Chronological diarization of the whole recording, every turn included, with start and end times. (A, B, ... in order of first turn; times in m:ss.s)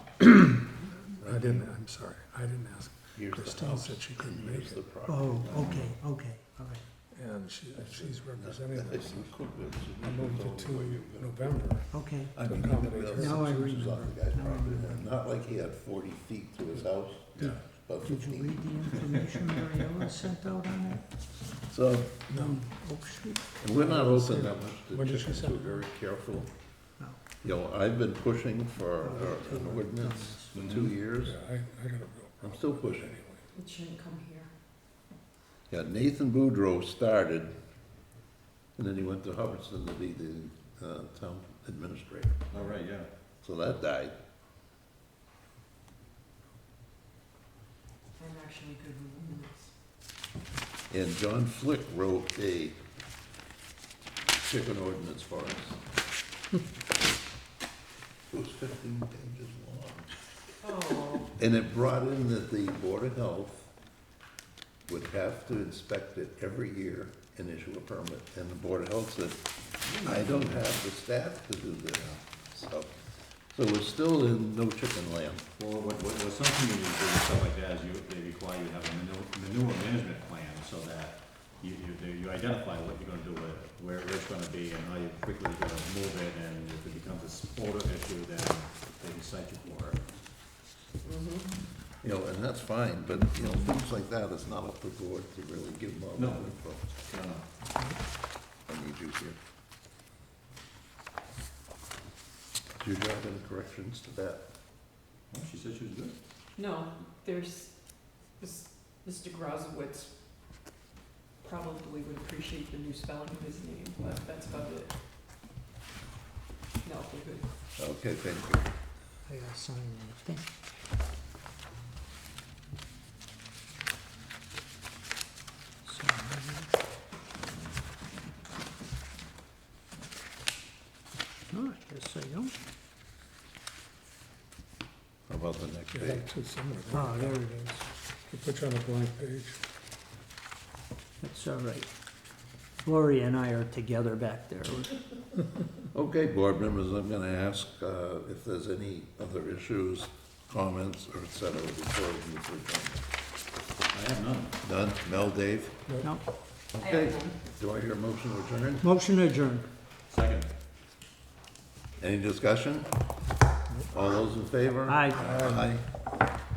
0:00.2-0:00.6 A
0:01.1-0:04.8 A
0:01.2-0:01.7 B
0:03.2-0:05.8 B
0:05.1-0:06.8 C
0:05.5-0:05.8 D
0:07.1-0:09.3 A
0:07.8-0:18.6 B
0:10.0-0:13.8 A
0:11.9-0:12.3 C
0:13.2-0:15.0 C
0:17.4-0:17.6 D
0:18.1-0:20.1 E
0:18.3-0:21.0 C
0:21.7-0:22.4 B
0:22.3-0:23.4 C
0:23.6-0:26.5 B
0:23.7-0:25.8 A
0:27.4-0:31.4 B
0:29.0-0:29.7 C
0:29.3-0:30.5 E
0:30.5-0:30.8 D
0:31.2-0:33.4 A
0:32.4-0:33.2 B
0:33.5-0:34.5 E
0:35.7-0:37.6 B
0:38.8-0:42.6 B
0:42.5-0:43.1 D
0:43.4-0:44.2 B
0:48.2-0:49.7 E
0:50.9-0:52.8 B
0:54.4-0:55.8 B
0:58.3-1:00.2 B
1:00.6-1:01.3 E
1:01.3-1:03.7 B
1:04.9-1:15.5 B
1:09.9-1:10.3 D
1:15.6-1:30.0 D
1:31.0-1:31.5 E
1:32.0-1:37.0 B
1:36.2-1:37.4 D
1:38.7-1:39.4 B
1:42.8-1:44.4 B
1:45.3-1:46.2 D
1:46.6-1:47.8 E
1:48.4-1:50.1 E
1:51.4-1:54.9 E
1:56.8-1:57.5 E
1:57.8-1:58.7 B
1:59.3-2:00.4 E
2:05.9-2:06.7 C
2:11.5-2:12.5 C
2:11.5-2:11.8 E
2:15.3-2:16.3 B
2:15.9-2:19.6 A
2:16.9-2:17.7 C
2:21.2-2:21.9 C
2:22.8-2:24.9 C
2:22.9-2:24.0 E
2:25.9-2:33.1 B
2:33.9-2:34.6 D
2:34.6-2:35.8 B
2:36.7-2:38.9 B
2:36.8-2:37.3 E
2:38.8-2:39.6 E
2:40.1-2:40.5 D
2:42.0-2:43.0 B
2:43.8-2:45.9 B
2:44.9-2:45.2 E
2:45.2-2:45.6 A